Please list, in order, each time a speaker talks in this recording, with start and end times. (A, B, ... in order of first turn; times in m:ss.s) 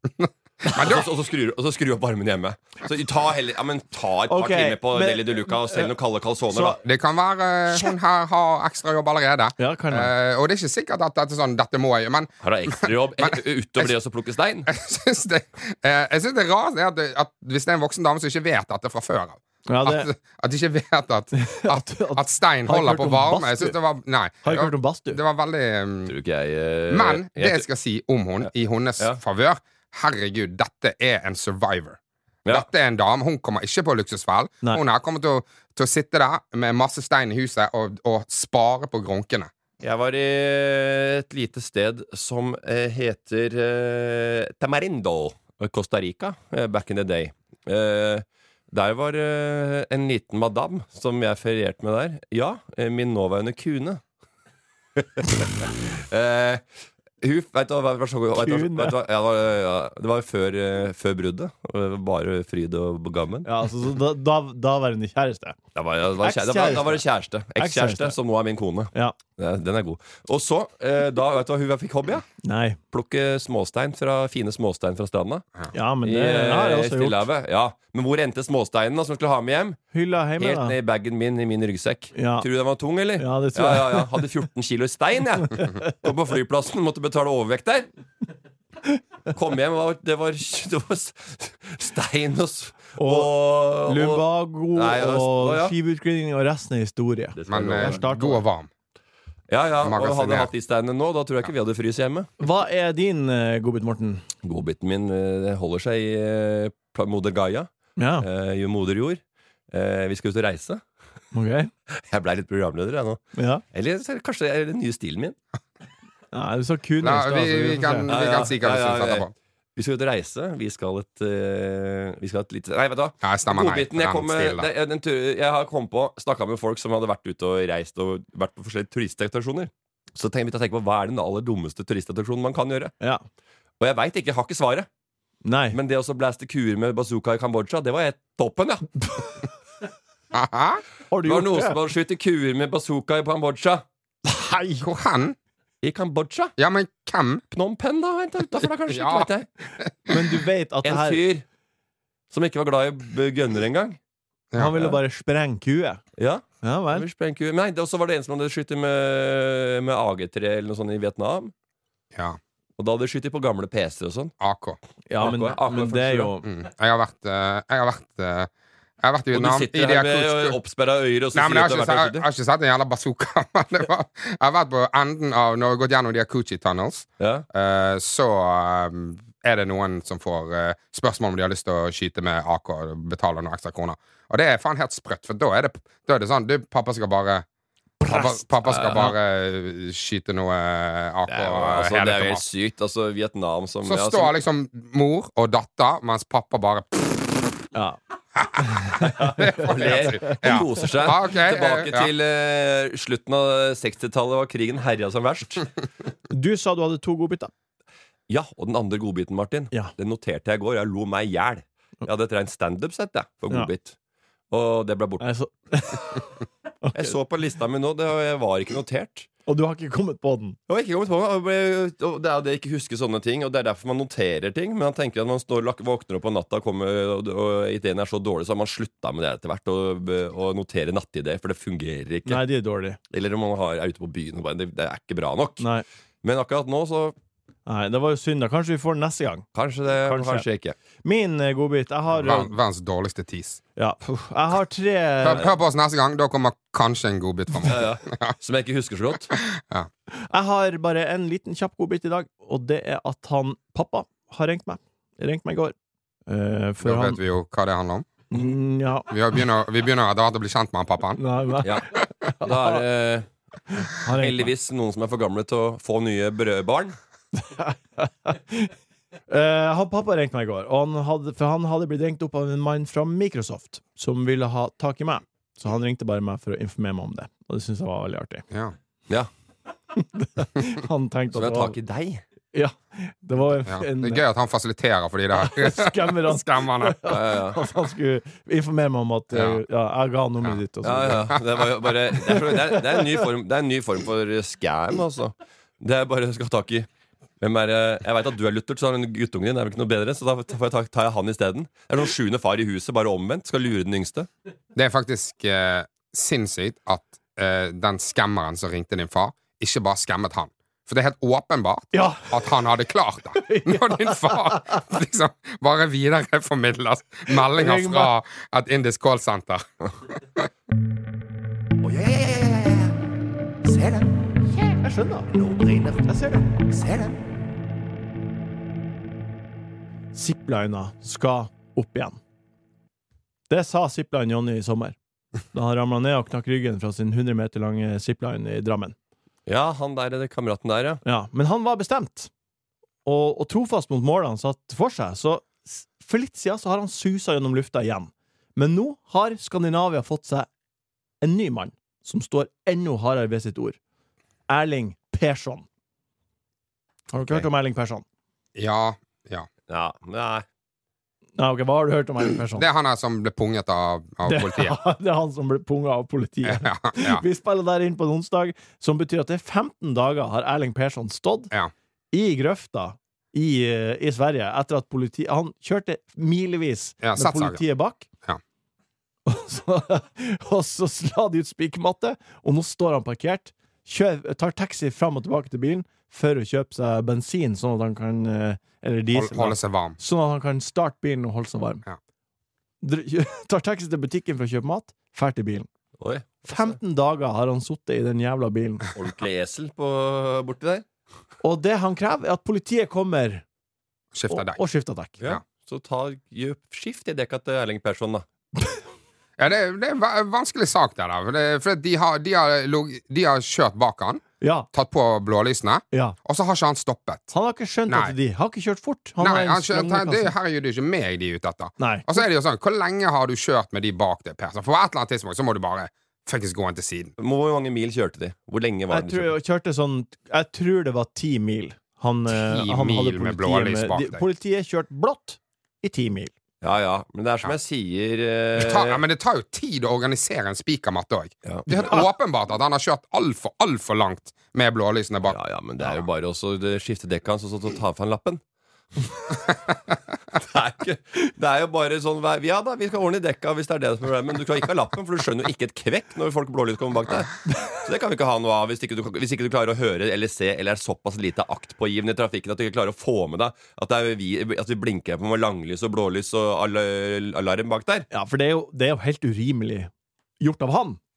0:00.2-0:01.0 A
0:00.7-0:06.8 B
0:04.3-0:05.9 C
0:06.5-0:06.8 C
0:06.8-0:13.9 A
0:09.6-0:10.1 C
0:12.4-0:14.7 B
0:14.7-0:26.1 A
0:19.7-0:20.1 C
0:21.3-0:23.8 C
0:24.4-0:25.2 C
0:26.1-0:27.7 B
0:26.9-0:39.5 A
0:28.4-0:29.2 B
0:39.8-0:54.0 B
0:55.0-0:56.6 B
0:57.2-1:03.5 B
0:58.4-0:59.0 C
1:03.4-1:05.6 C
1:05.8-1:12.3 B
1:06.2-1:07.0 C
1:07.6-1:08.2 C
1:12.4-1:12.8 C
1:12.9-1:15.5 B
1:15.7-1:17.2 C
1:16.0-1:19.8 B
1:19.9-1:20.8 C
1:20.4-1:27.9 B
1:22.2-1:22.5 C
1:23.2-1:24.2 C
1:29.3-1:35.8 B
1:33.0-1:38.4 C
1:37.4-1:38.0 B
1:37.5-1:38.7 A
1:39.5-1:42.3 B
1:39.8-1:40.5 A
1:42.4-1:44.2 C
1:44.4-1:50.8 B
1:48.0-1:48.2 C
1:51.3-1:51.7 C
1:52.0-1:55.4 B
1:53.4-1:53.6 C
1:56.3-1:58.1 C
1:57.0-1:59.3 A
1:58.1-2:12.9 B
2:03.2-2:04.7 A
2:13.8-2:14.9 B
2:15.4-2:15.8 C
2:15.7-2:18.9 B
2:20.3-2:20.8 A
2:21.1-2:21.8 C
2:21.2-2:23.8 B
2:24.2-2:24.9 C
2:24.8-2:25.4 A
2:25.8-2:26.6 B
2:26.6-2:27.4 A
2:27.5-2:29.5 B
2:28.9-2:29.3 A
2:30.1-2:31.2 C
2:30.8-2:31.4 B
2:32.3-2:34.0 B
2:34.6-2:36.0 C
2:36.2-2:41.5 B
2:36.6-2:37.0 C
2:42.1-2:42.4 A
2:42.8-2:44.3 B
2:44.4-2:44.8 A
2:45.1-2:46.4 C
2:45.2-2:46.3 B
2:46.4-2:48.5 A
2:49.0-2:50.6 A
2:49.3-2:52.2 B
2:51.3-3:07.5 A
2:57.2-2:57.5 B
3:08.0-3:09.1 C
3:08.1-3:12.4 A
3:11.3-3:14.3 B
3:13.8-3:17.4 A
3:18.6-3:20.4 C
3:19.1-3:25.7 B
3:19.2-3:22.1 A
3:26.3-3:27.5 C
3:28.3-3:34.0 B
3:34.5-3:35.3 B
3:35.2-3:36.3 C
3:36.8-3:37.1 C
3:37.0-3:39.3 B
3:39.5-3:40.6 C
3:40.7-3:52.4 B
3:52.3-3:53.0 C
3:53.1-3:55.6 B
3:56.2-3:57.2 B
3:57.7-3:59.4 C
3:59.6-4:00.8 B
4:00.0-4:00.4 C
4:01.0-4:02.5 C
4:02.1-4:03.6 A
4:03.8-4:05.5 C
4:05.2-4:08.4 A
4:07.6-4:09.4 B
4:09.5-4:09.9 A
4:10.1-4:15.8 C
4:16.3-4:17.2 C
4:16.8-4:18.1 A
4:18.3-4:19.1 C
4:19.1-4:21.2 A
4:21.2-4:22.8 C
4:22.4-4:23.3 B
4:23.9-4:24.5 C
4:24.2-4:27.0 B
4:27.4-4:28.7 C
4:29.3-4:38.5 C
4:40.0-4:41.8 C
4:41.3-4:42.2 B
4:42.5-4:44.2 C
4:43.7-4:47.0 A
4:45.4-4:51.4 C
4:47.1-4:47.6 B
4:49.3-4:49.6 A
4:50.8-4:56.9 B
4:52.3-4:53.2 C
4:57.4-5:04.3 B
5:04.8-5:19.7 A
5:11.9-5:12.4 C
5:13.4-5:14.9 C
5:17.3-5:18.1 C
5:20.2-5:20.5 A
5:21.9-5:22.7 D
5:23.6-5:24.1 D
5:24.8-5:25.3 C
5:25.4-5:26.0 D
5:26.0-5:26.5 C
5:26.7-5:27.2 D
5:30.1-5:32.2 C
5:33.5-5:35.0 C
5:35.5-5:39.0 C
5:39.5-5:41.0 B
5:41.0-5:42.3 C
5:43.0-5:50.5 C
5:51.2-5:53.8 C
5:54.5-5:55.7 C
5:57.1-5:58.0 C
5:58.6-5:59.5 A
5:59.7-6:00.4 B
6:01.4-6:02.7 C
6:02.6-6:04.8 A
6:04.2-6:11.5 C
6:06.4-6:07.2 A
6:12.1-6:18.1 C
6:17.0-6:17.6 A
6:19.3-6:31.8 C
6:29.1-6:30.0 A
6:32.8-6:35.7 C
6:36.0-6:36.8 B
6:36.4-6:38.9 C
6:39.0-6:40.8 B
6:41.4-6:43.4 C
6:44.1-6:44.6 A
6:44.3-6:45.2 C
6:45.2-6:48.2 B
6:49.4-6:57.3 A
6:54.4-6:54.7 C
6:57.3-7:00.3 C
6:57.9-6:58.2 A
6:59.2-7:07.1 A
7:01.8-7:02.2 C
7:07.2-7:09.3 B
7:08.9-7:16.3 C
7:12.3-7:14.2 A
7:16.6-7:19.0 B
7:18.6-7:26.0 A
7:21.4-7:21.8 B
7:25.3-7:28.4 B
7:30.4-7:48.1 B
7:48.1-7:51.0 C